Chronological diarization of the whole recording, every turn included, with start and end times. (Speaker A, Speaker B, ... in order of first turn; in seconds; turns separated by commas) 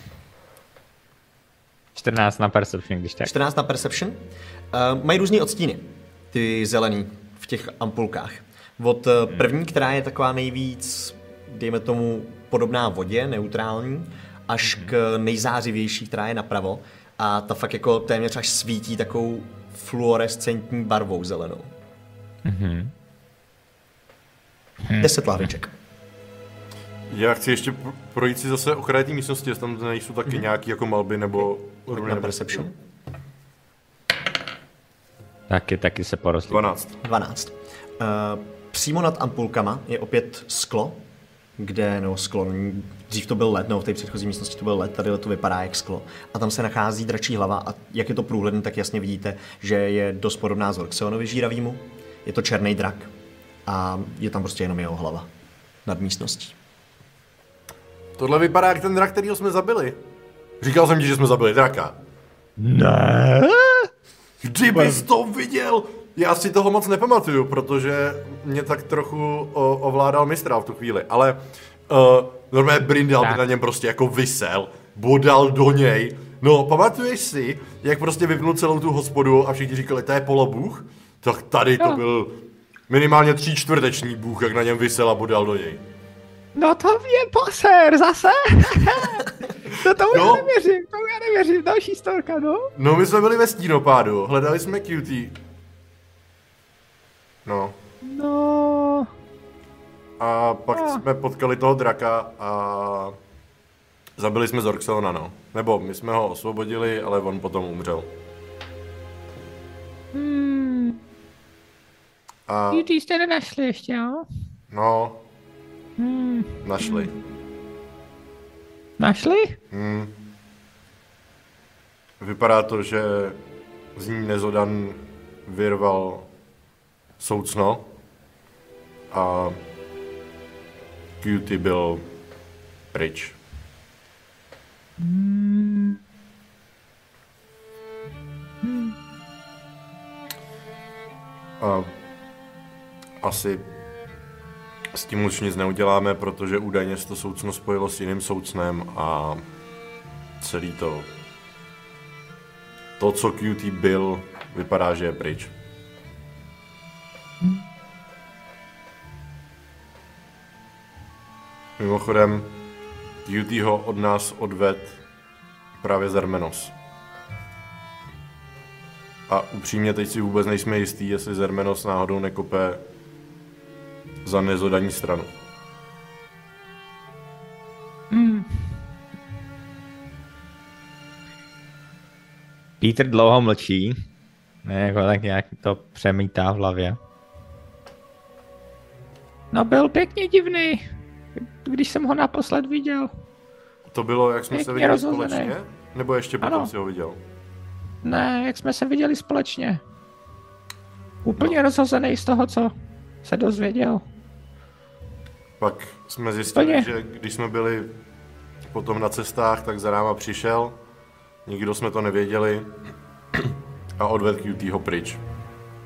Speaker A: 1.9-3.3, Speaker B: 3.2-21.7, Speaker A: 14.6-14.9, Speaker A: 22.4-22.9, Speaker B: 25.0-25.7, Speaker C: 27.1-32.7, Speaker B: 31.9-32.7, Speaker A: 35.5-36.7, Speaker C: 36.5-37.0, Speaker B: 37.0-41.0, Speaker B: 41.6-53.1, Speaker B: 53.6-55.3, Speaker B: 55.8-56.5, Speaker C: 58.2-60.0, Speaker C: 60.6-62.0, Speaker A: 62.6-63.9, Speaker C: 64.4-82.4, Speaker A: 64.7-65.0, Speaker C: 82.9-85.8, Speaker D: 86.5-92.7, Speaker C: 90.0-90.5, Speaker C: 92.8-95.4, Speaker C: 97.4-97.7, Speaker D: 98.0-99.1, Speaker C: 100.2-103.2, Speaker D: 100.8-101.0, Speaker C: 104.2-108.1, Speaker D: 110.1-111.0, Speaker C: 112.5-112.9, Speaker D: 112.7-114.2, Speaker C: 114.7-115.2, Speaker D: 116.0-117.1, Speaker C: 116.6-117.1, Speaker D: 119.0-119.6, Speaker C: 119.7-120.1, Speaker C: 122.2-123.4, Speaker C: 124.0-126.3, Speaker C: 127.2-127.8, Speaker C: 129.1-129.6, Speaker C: 131.2-132.0, Speaker C: 132.9-133.3, Speaker D: 135.0-136.0, Speaker D: 138.6-138.9, Speaker C: 141.6-141.9, Speaker C: 143.2-143.7, Speaker C: 144.9-149.4, Speaker C: 150.4-151.1, Speaker C: 153.0-155.5, Speaker C: 161.8-162.5, Speaker C: 163.2-164.9, Speaker C: 165.8-166.7, Speaker C: 169.3-172.8, Speaker C: 174.2-175.3, Speaker D: 178.1-178.7, Speaker A: 182.8-183.9, Speaker A: 184.6-187.0, Speaker D: 189.5-190.8, Speaker D: 191.4-193.1, Speaker C: 193.9-197.2, Speaker D: 194.5-195.5, Speaker D: 196.4-196.7, Speaker D: 198.0-199.8, Speaker D: 201.2-202.7, Speaker D: 203.2-204.0, Speaker C: 205.6-207.9, Speaker D: 206.5-206.9, Speaker C: 208.7-210.8, Speaker C: 211.4-212.7, Speaker C: 213.4-215.2